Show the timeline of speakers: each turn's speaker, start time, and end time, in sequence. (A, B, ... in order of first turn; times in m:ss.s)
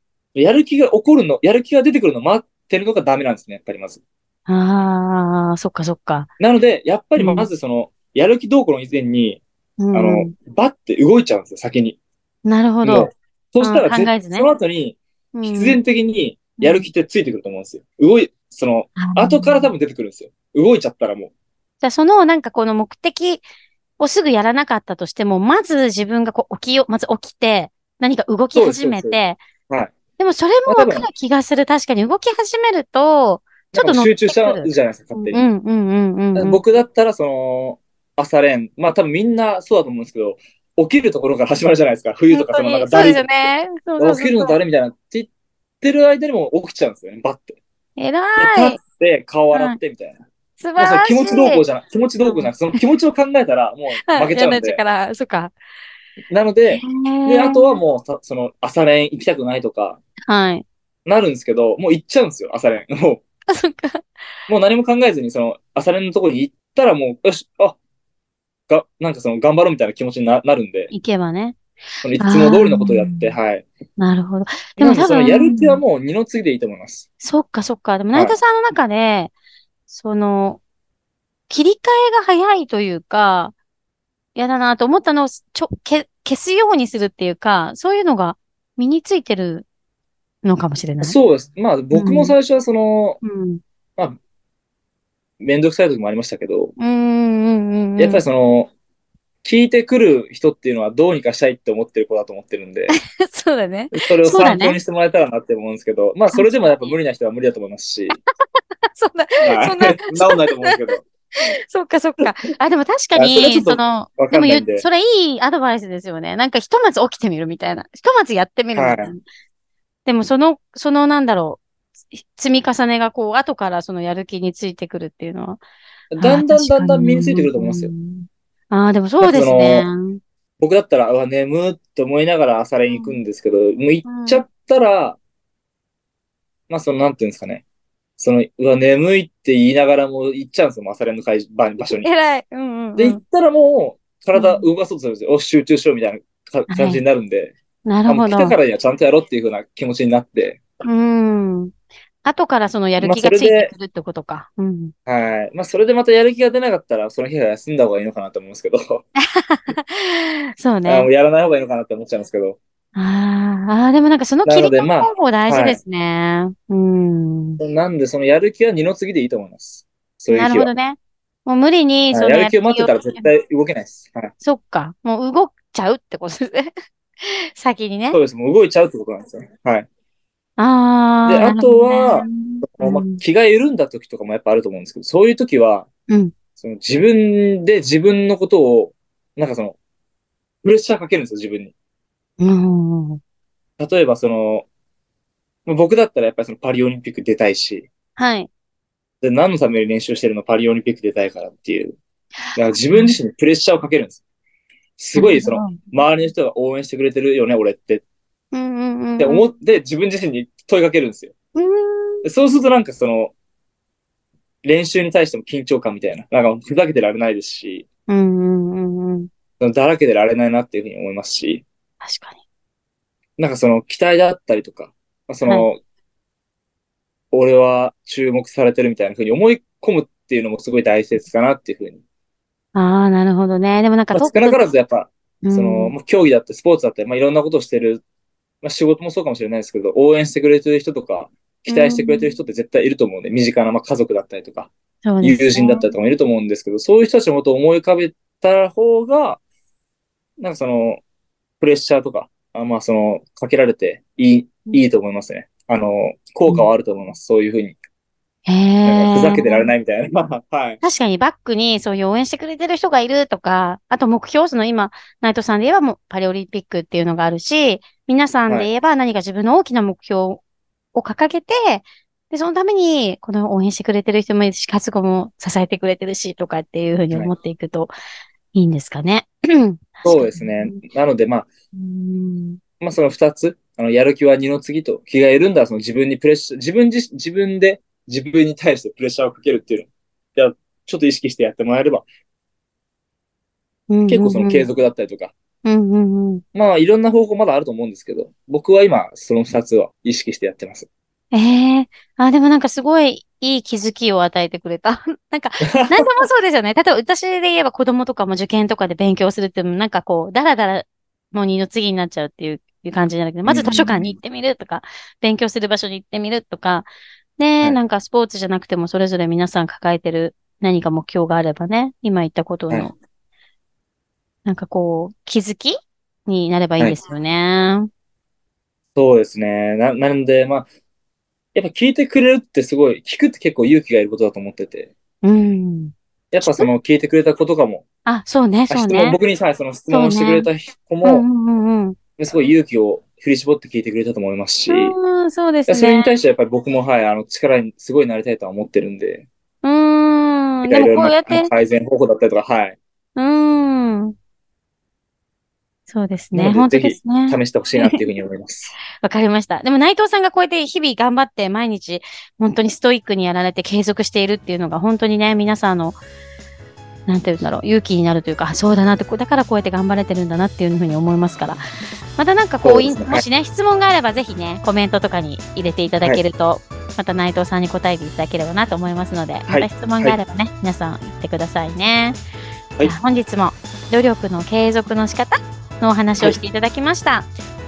0:00.4-0:04.0 A
0:04.5-0:06.3 B
0:06.4-0:09.4 A
0:07.2-0:07.5 B
0:09.8-0:10.3 B
0:09.9-0:12.0 A
0:12.4-0:14.5 B
0:12.8-0:21.3 A
0:15.3-0:15.8 B
0:16.6-0:16.9 B
0:19.0-0:19.7 B
0:21.8-0:23.4 B
0:24.0-0:29.4 B
0:28.5-0:29.9 A
0:30.2-0:36.6 B
0:30.7-0:31.1 A
0:33.7-0:35.5 A
0:36.4-0:43.3 A
0:42.3-0:44.6 B
0:44.0-0:45.3 A
0:45.8-0:47.6 A
0:48.0-0:48.8 B
0:48.4-0:50.2 A
0:49.5-0:49.8 B
0:50.6-0:51.6 B
0:50.8-0:54.8 A
0:52.2-0:52.8 B
0:53.9-0:55.6 B
0:56.3-1:00.0 A
0:56.7-0:57.8 B
1:00.3-1:00.6 B
1:01.1-1:03.2 A
1:03.5-1:04.0 B
1:04.5-1:07.8 A
1:08.7-1:10.9 A
1:10.9-1:11.6 B
1:12.0-1:13.7 A
1:12.2-1:13.4 B
1:14.0-1:15.8 B
1:14.8-1:17.1 A
1:17.2-1:19.3 B
1:19.9-1:20.6 B
1:21.5-1:23.6 B
1:24.4-1:29.7 B
1:30.4-1:31.2 B
1:31.0-1:33.2 A
1:31.9-1:32.4 B
1:33.2-1:33.6 B
1:35.4-1:36.7 A
1:36.8-1:38.2 B
1:38.0-1:38.7 A
1:39.4-1:43.0 A
1:42.9-1:44.8 B
1:43.9-1:48.2 A
1:46.3-1:47.0 B
1:49.0-1:50.8 B
1:49.4-1:51.0 A
1:51.7-1:59.2 B
1:53.2-1:54.9 A
1:58.8-1:59.1 A
2:00.1-2:05.6 B
2:06.1-2:07.9 A
2:06.2-2:10.2 B
2:09.2-2:09.9 A
2:10.6-2:15.2 A
2:12.9-2:13.2 B
2:14.0-2:14.4 B
2:16.7-2:17.6 A
2:18.2-2:22.1 A
2:21.8-2:23.2 B
2:23.0-2:27.6 A
2:24.3-2:24.7 B
2:26.7-2:27.0 B
2:27.9-2:28.6 B
2:28.1-2:30.6 A
2:30.8-2:31.7 B
2:32.2-2:34.9 B
2:33.0-2:33.7 A
2:35.1-2:39.0 A
2:39.4-2:41.1 B
2:40.8-2:42.6 A
2:43.0-2:47.6 B
2:44.4-2:45.8 A
2:47.6-2:50.7 A
2:50.3-2:53.2 B
2:52.1-2:54.3 A
2:54.4-2:56.7 B
2:57.2-2:58.2 B
2:58.1-2:59.9 A
3:00.6-3:03.2 B
3:01.3-3:05.9 A
3:06.6-3:09.8 A
3:10.6-3:11.7 A
3:12.4-3:13.2 B
3:13.8-3:14.7 A
3:15.7-3:17.9 A
3:18.2-3:18.5 B
3:19.2-3:22.0 A
3:22.6-3:24.2 A
3:22.7-3:23.2 B
3:25.0-3:28.0 A
3:25.2-3:25.9 B
3:28.5-3:29.4 B
3:29.2-3:31.3 A
3:31.6-3:32.2 B
3:32.2-3:33.3 A
3:34.6-3:37.9 A
3:38.1-3:39.3 B
3:39.6-3:41.6 A
3:42.0-3:42.4 B
3:43.4-3:45.8 A
3:47.3-3:52.0 A
3:52.8-3:54.7 B
3:54.1-3:58.0 A
3:55.4-3:55.9 B
3:58.6-4:09.4 A
4:01.7-4:02.4 B
4:05.0-4:05.9 B
4:10.4-4:11.0 A
4:11.6-4:17.8 A
4:18.5-4:19.7 B
4:18.9-4:20.8 A
4:20.8-4:30.4 B
4:30.9-4:37.9 B
4:38.5-4:40.8 B
4:40.0-4:41.5 A
4:41.7-4:42.6 B
4:42.8-4:52.1 A
4:53.9-4:54.7 B
4:54.1-4:55.3 A
4:55.6-4:56.4 B
4:56.5-5:00.9 A
5:01.3-5:23.0 B
5:05.6-5:06.3 A
5:13.5-5:14.0 A
5:24.4-5:25.8 B
5:26.3-5:27.9 B
5:29.0-5:30.7 A
5:31.6-5:34.9 A
5:35.2-5:36.7 B
5:36.3-5:37.8 A
5:38.0-5:39.2 B
5:38.7-5:41.3 A
5:39.9-5:40.5 B
5:41.0-5:42.0 B
5:42.2-5:45.0 A
5:44.7-5:46.1 B
5:45.7-5:49.3 A
5:49.6-5:51.5 B
5:50.6-5:52.8 A
5:53.2-5:54.2 B
5:55.9-5:58.0 B
5:56.3-5:58.8 A
5:59.0-6:06.0 B
6:07.1-6:11.6 B
6:12.2-6:22.2 B
6:12.6-6:13.2 A
6:19.5-6:20.2 A
6:22.8-6:27.3 B